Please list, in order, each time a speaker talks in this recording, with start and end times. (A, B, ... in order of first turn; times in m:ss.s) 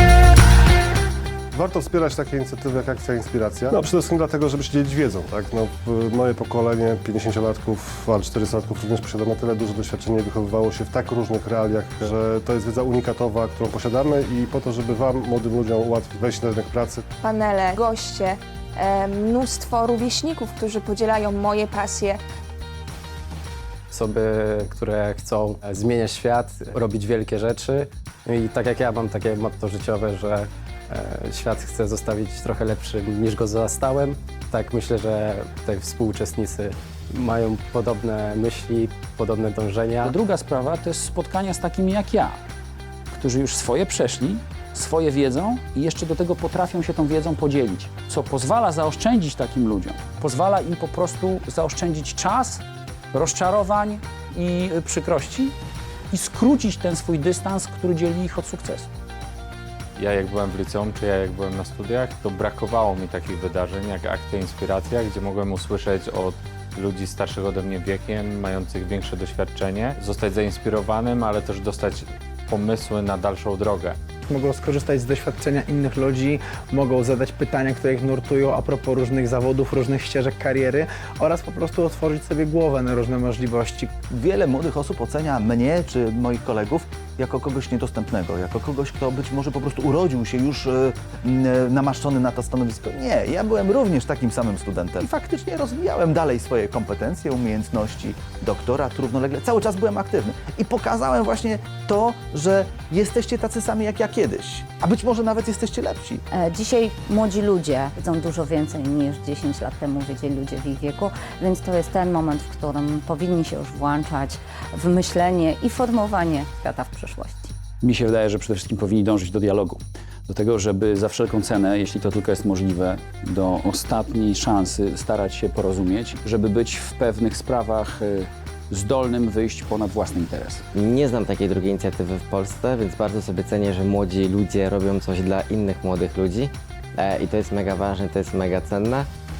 0:01.5-0:17.0 A
0:17.2-0:18.2 B
0:19.2-0:22.0 B
0:23.9-0:40.1 C
0:40.0-0:42.4 D
0:43.1-0:55.6 D
0:56.1-0:58.9 D
1:00.0-1:14.0 E
1:14.3-1:24.0 F
1:24.1-1:46.2 G
1:46.3-1:57.5 H
1:57.8-2:10.6 D
2:10.7-2:19.1 I